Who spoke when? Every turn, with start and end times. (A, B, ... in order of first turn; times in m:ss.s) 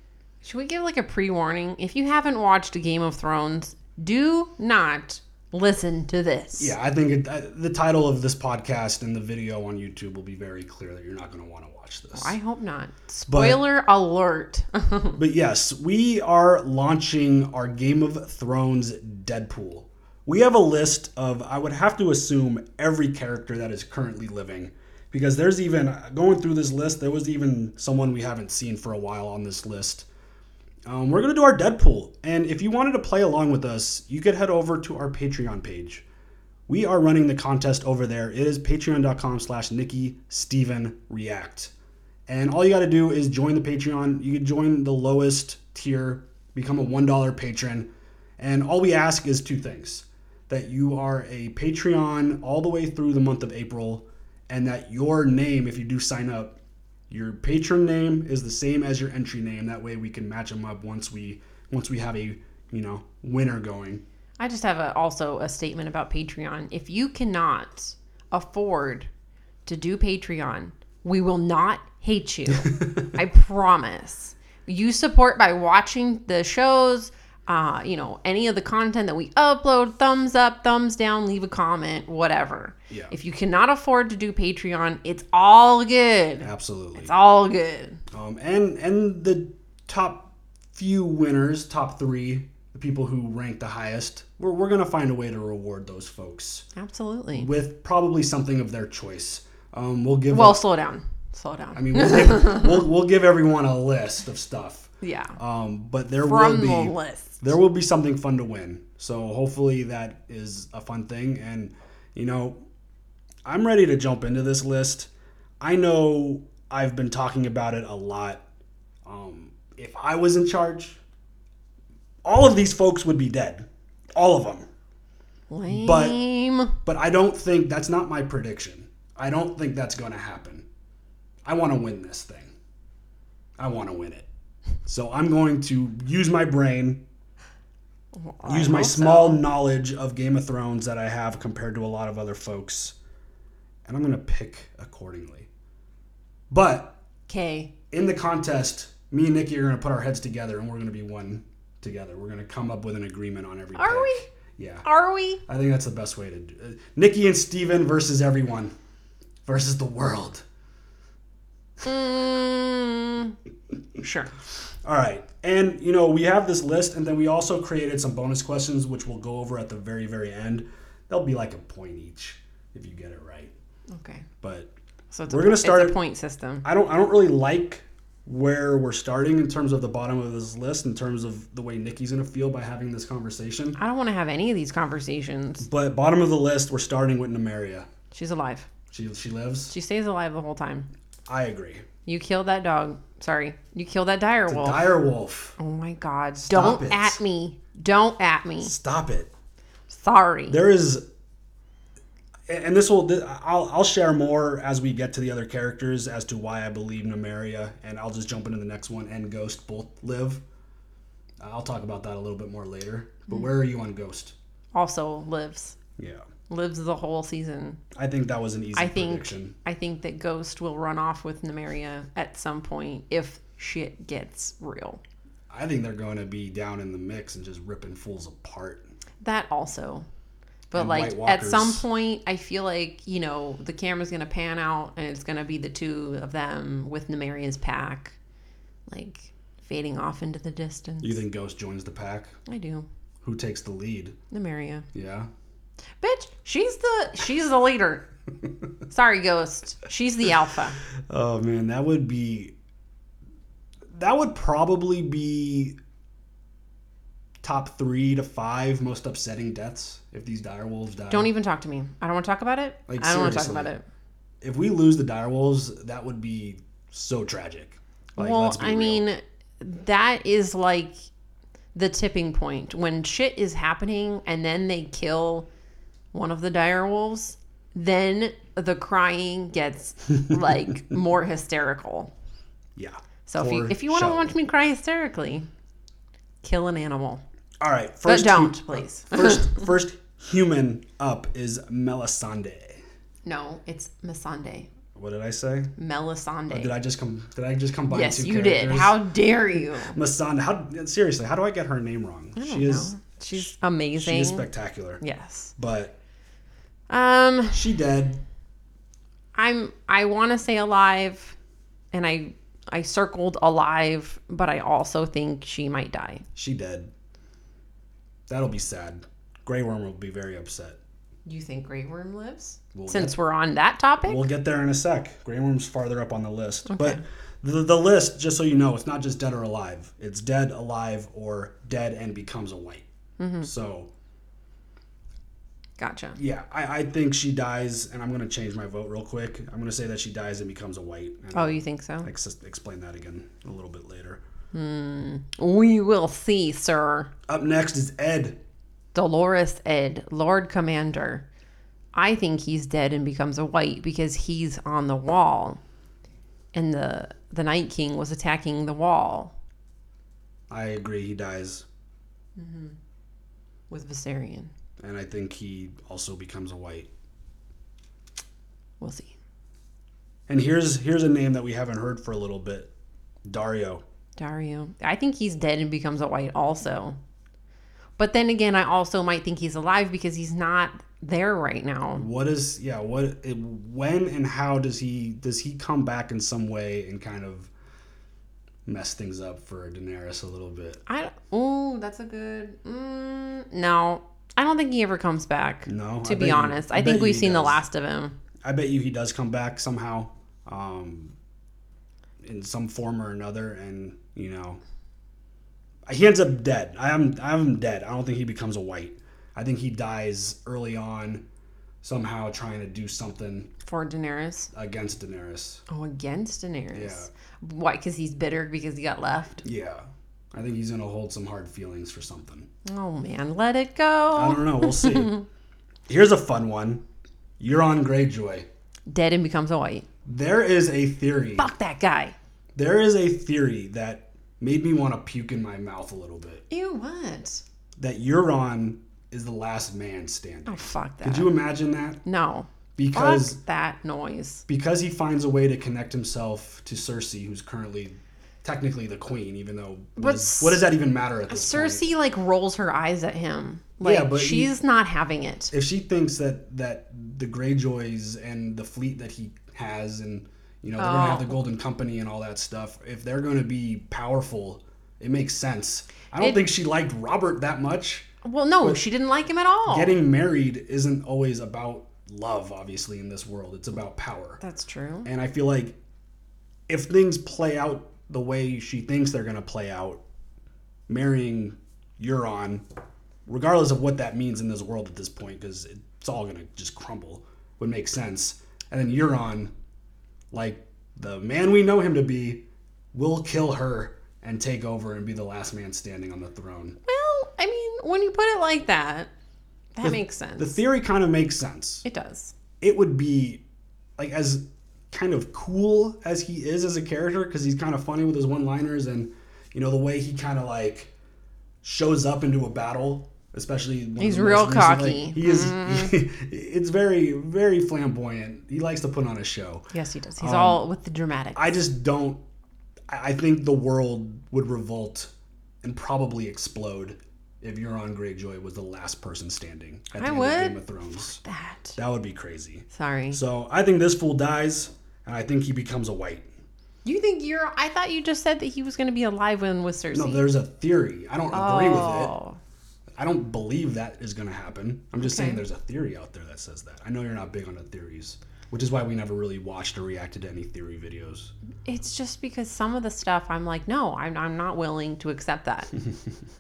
0:00.4-0:06.7 A
0:06.6-0:12.4 B
0:12.1-0:15.2 A
0:13.3-0:13.6 B
0:15.2-0:30.1 B
0:30.8-0:36.0 B
0:36.7-0:41.7 B
0:42.3-0:56.6 B
0:57.1-1:04.0 B
1:04.4-1:09.1 A
1:09.6-1:28.0 A
1:12.6-1:13.0 B
1:26.4-1:27.1 B
1:28.1-1:36.6 B
1:36.7-1:37.5 A
1:37.3-1:40.6 B
1:40.3-1:42.8 A
1:41.8-1:52.6 B
1:45.0-1:45.4 A
1:46.2-1:47.4 A
1:53.4-1:58.4 B
1:59.0-2:01.0 B
2:02.2-2:04.6 B
2:05.5-2:06.8 A
2:05.7-2:06.2 B
2:06.8-2:10.7 B
2:11.4-2:12.5 B
2:13.6-2:14.3 B
2:14.8-2:17.0 B
2:18.2-2:19.4 A
2:18.4-2:23.0 B
2:23.8-2:25.5 B
2:26.5-2:27.0 B
2:27.3-2:27.7 A
2:27.9-2:34.8 B
2:33.7-2:34.2 A
2:34.8-2:35.4 A
2:35.5-2:38.7 B
2:39.4-2:40.4 B
2:41.8-2:43.4 A
2:44.0-2:44.3 A
2:44.8-2:53.5 B
2:53.9-2:54.3 A
2:54.4-2:54.7 B
2:55.1-2:56.6 A
2:55.3-2:56.0 B
2:56.6-3:03.8 B
3:03.8-3:05.6 A
3:05.6-3:07.9 B
3:08.1-3:08.7 A
3:08.9-3:09.7 B
3:09.7-3:10.9 A
3:11.3-3:11.8 B
3:12.0-3:14.9 A
3:14.5-3:15.6 B
3:15.6-3:18.7 A
3:16.4-3:17.2 B
3:18.6-3:19.3 B
3:19.9-3:20.6 A
3:20.5-3:21.0 B
3:22.5-3:30.4 B
3:31.4-3:34.4 B
3:34.7-3:35.8 A
3:36.0-3:36.2 B
3:36.5-3:37.8 A
3:37.9-3:39.6 B
3:38.7-3:45.0 A
3:45.5-3:48.9 B
3:49.2-3:50.0 A
3:50.7-3:51.8 B
3:50.7-3:58.2 A
3:58.9-4:01.2 A
4:01.0-4:02.4 B
4:02.4-4:02.9 A
4:03.2-4:04.2 B
4:04.3-4:04.9 A
4:04.9-4:05.3 B
4:06.0-4:08.1 A
4:08.9-4:10.8 A
4:11.1-4:12.5 B
4:13.9-4:15.8 B
4:17.4-4:21.3 B
4:21.1-4:23.8 A
4:22.9-4:23.7 B
4:24.4-4:29.0 B
4:28.2-4:31.0 A
4:31.7-4:35.5 A
4:36.1-4:42.1 A
4:42.8-4:44.4 B
4:43.3-4:45.5 A
4:46.4-4:47.2 A
4:47.6-4:52.8 B
4:48.0-4:49.6 A
4:53.2-4:54.7 A
4:54.9-4:55.7 B
4:55.8-4:56.7 A
4:56.5-4:59.0 B
4:57.9-5:00.0 A
4:59.8-5:05.0 B
5:02.4-5:04.5 A
5:05.0-5:05.5 A
5:05.6-5:06.0 B
5:06.9-5:07.7 A
5:07.5-5:08.2 B
5:09.3-5:11.4 A
5:11.9-5:16.2 A
5:16.4-5:16.9 B
5:18.3-5:20.8 B
5:21.2-5:24.3 A
5:22.7-5:23.2 B
5:24.0-5:32.9 B
5:26.7-5:27.0 A
5:33.2-5:33.5 A
5:33.4-5:33.9 B
5:35.8-5:36.2 A
5:36.2-5:44.2 B
5:41.3-5:42.1 A
5:44.5-5:47.1 A
5:47.3-5:48.4 B
5:48.9-5:51.2 A
5:51.9-5:55.6 A
5:56.5-5:59.3 A
6:00.5-6:01.6 B
6:02.4-6:02.8 A
6:03.7-6:04.5 A
6:04.8-6:06.9 B
6:08.8-6:09.1 A
6:10.3-6:12.7 B
6:13.2-6:13.8 B
6:14.2-6:17.0 A
6:18.0-6:22.0 A
6:22.0-6:27.5 B
6:28.6-6:30.8 B
6:30.9-6:38.2 A
6:35.7-6:37.6 B
6:38.4-6:41.1 B
6:42.2-6:44.6 B
6:45.9-6:51.2 B
6:51.8-6:53.5 B
6:53.6-6:54.5 A
6:54.5-6:55.6 B
6:55.7-6:59.4 A
6:56.7-6:57.1 B
6:59.4-7:02.5 B
7:02.6-7:05.2 A
7:04.1-7:05.1 B
7:05.9-7:06.8 B
7:07.4-7:08.5 B
7:08.9-7:09.8 A
7:10.0-7:11.5 B
7:11.4-7:12.2 A
7:12.5-7:16.4 B
7:16.5-7:17.4 A
7:17.8-7:22.0 B
7:20.4-7:21.4 A
7:22.0-7:24.4 A
7:22.8-7:23.4 B
7:24.5-7:31.9 B
7:30.0-7:30.6 A
7:31.3-7:35.5 A
7:33.8-7:34.5 B
7:35.5-7:48.1 B
7:40.8-7:41.4 A
7:46.2-7:46.4 A
7:48.2-7:50.0 A
7:49.7-7:54.4 B
7:54.4-7:55.1 A
7:55.0-7:55.8 B
7:56.7-8:00.0 B
8:00.9-8:02.6 B
8:03.3-8:09.5 B
8:10.3-8:16.8 B
8:16.8-8:19.1 A
8:19.7-8:20.6 A
8:19.8-8:21.8 B
8:21.8-8:22.3 A
8:22.6-8:23.4 B
8:24.0-8:30.9 B
8:31.6-8:39.7 B
8:34.0-8:36.0 A
8:39.7-8:41.5 A
8:40.2-8:40.6 B
8:41.4-8:42.2 B
8:42.9-8:45.1 B
8:45.6-8:51.2 B
8:49.9-8:51.8 A
8:51.8-8:56.3 B
8:52.7-8:53.2 A
8:56.8-9:00.2 A
8:59.9-9:02.1 B
9:01.3-9:02.4 A
9:03.0-9:11.3 B
9:05.0-9:05.4 A
9:11.6-9:15.7 A